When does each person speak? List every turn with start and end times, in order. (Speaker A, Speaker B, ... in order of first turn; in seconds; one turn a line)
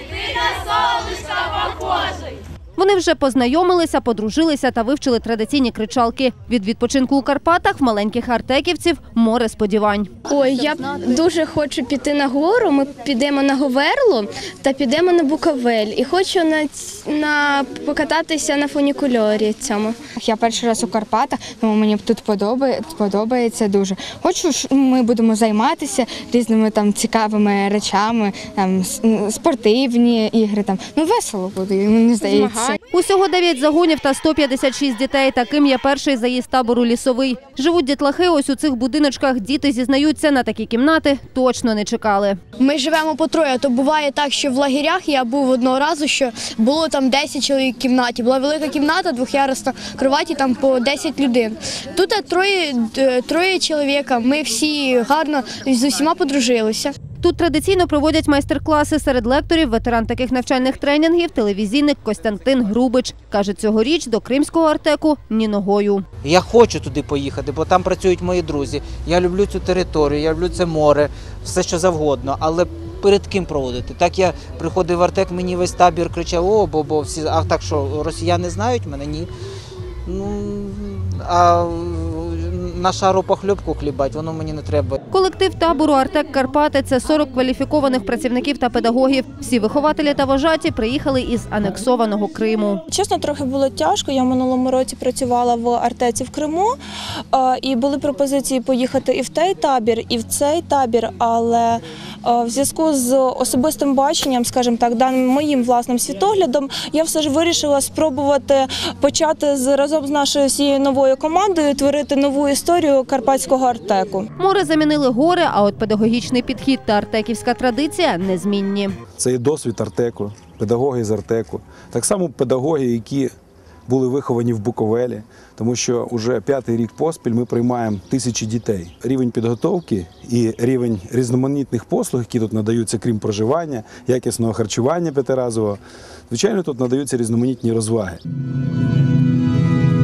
Speaker A: 0.9-2.0
Speaker A: 2.8-10.1
Speaker B: 10.3-20.0
Speaker C: 20.2-32.8
Speaker A: 32.9-42.4
Speaker D: 42.6-57.0
Speaker A: 57.2-66.0
Speaker E: 66.2-79.3
Speaker E: 80.0-85.0
Speaker A: 85.1-92.8
Speaker F: 92.9-96.7
Speaker F: 97.3-114.3
Speaker A: 114.4-119.0
Speaker G: 119.2-123.3
Speaker G: 123.9-138.2